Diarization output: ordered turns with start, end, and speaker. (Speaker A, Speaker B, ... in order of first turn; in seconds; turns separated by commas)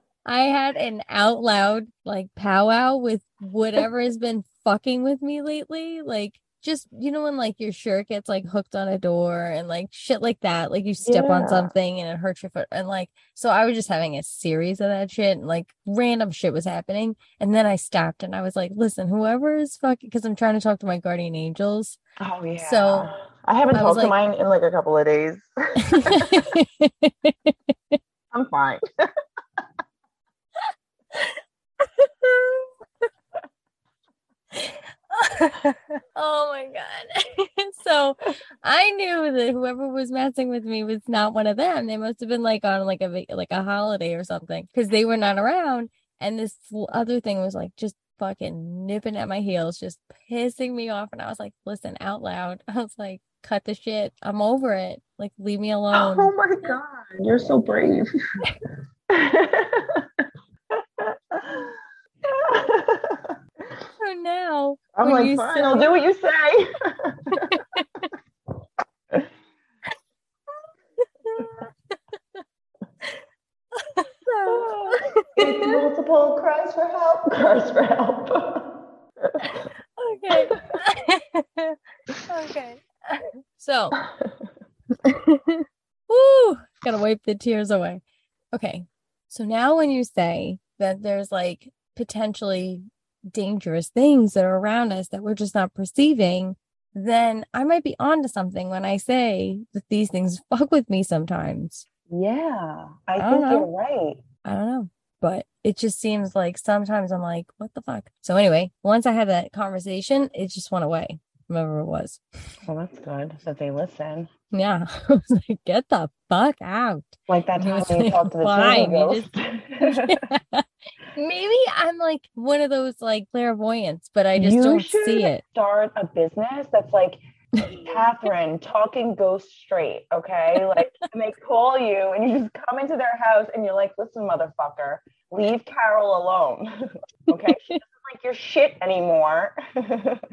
Speaker A: 0.2-22.0, Speaker B: 11.0-11.7, Speaker B: 22.2-25.4, Speaker A: 22.6-23.1, Speaker A: 23.7-24.1, Speaker A: 25.8-28.0, Speaker B: 26.0-26.5, Speaker B: 28.3-28.8, Speaker A: 31.1-32.7, Speaker A: 34.5-56.7, Speaker B: 55.9-58.1, Speaker B: 59.1-63.3, Speaker A: 64.0-65.9, Speaker B: 65.0-67.6, Speaker A: 67.3-68.1, Speaker A: 71.2-71.9, Speaker A: 73.8-75.8, Speaker B: 74.5-78.7, Speaker B: 79.2-79.7, Speaker A: 79.4-81.8, Speaker B: 80.5-80.8, Speaker A: 82.3-84.0, Speaker B: 84.0-84.5, Speaker A: 85.0-88.0, Speaker A: 88.5-101.8, Speaker B: 102.1-104.2, Speaker A: 103.2-103.7, Speaker A: 104.5-112.2, Speaker B: 112.7-114.3, Speaker A: 114.5-119.3, Speaker B: 117.3-120.2, Speaker A: 119.8-120.6, Speaker A: 121.2-125.4, Speaker B: 124.3-136.7, Speaker A: 127.6-127.9, Speaker A: 130.6-131.1, Speaker B: 137.3-140.2, Speaker A: 137.5-137.8